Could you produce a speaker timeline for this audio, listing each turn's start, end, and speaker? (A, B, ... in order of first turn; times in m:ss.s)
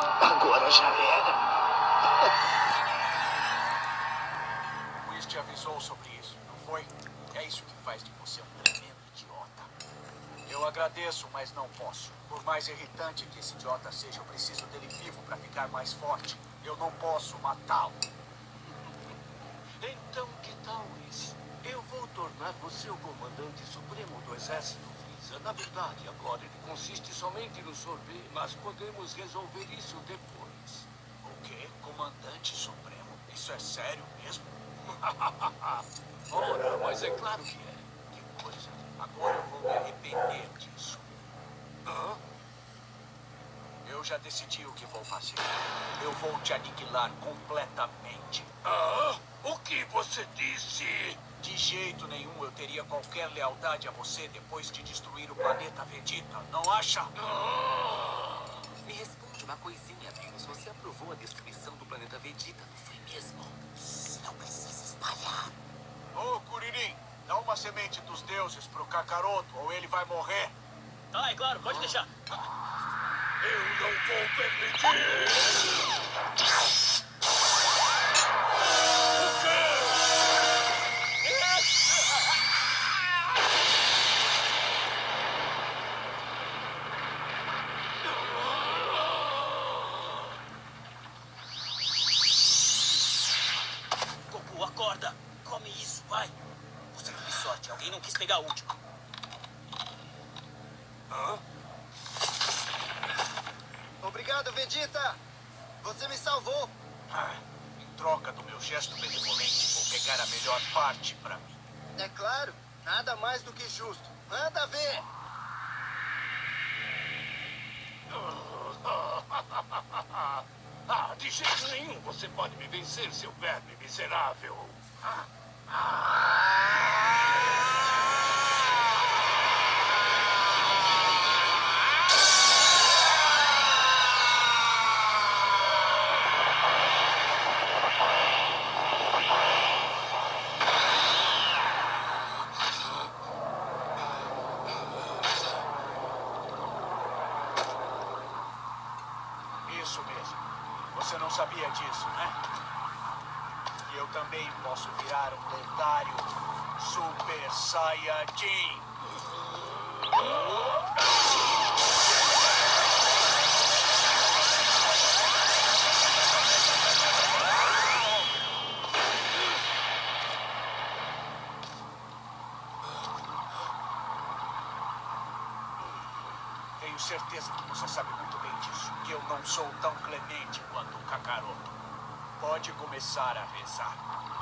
0:00.3-0:01.1 A
0:05.0-0:09.7 A
0:10.4-0:18.0 A
0:19.8-0:30.9 B
0:31.2-0:34.6 A
0:36.3-0:37.8 B
0:38.1-0:41.2 A
0:41.9-0:42.2 B
0:43.8-0:48.5 A
0:48.6-0:51.2 B
0:51.3-0:57.1 A
0:57.3-0:58.5 B
0:58.8-1:05.5 C
1:06.1-1:10.5 A
1:11.1-1:12.1 D
1:13.4-1:15.6 B
1:19.3-1:19.9 B
1:34.3-1:36.4 D
1:36.9-1:38.8 D
1:41.1-1:41.4 B
1:44.0-1:45.2 E
1:45.8-1:46.7 E
1:47.1-1:51.6 A
1:52.0-1:55.1 E
1:58.1-2:05.2 B
2:05.8-2:06.8 B
2:29.6-2:32.4 A
2:33.8-2:38.9 A
2:56.8-3:01.7 A
3:02.4-3:04.0 A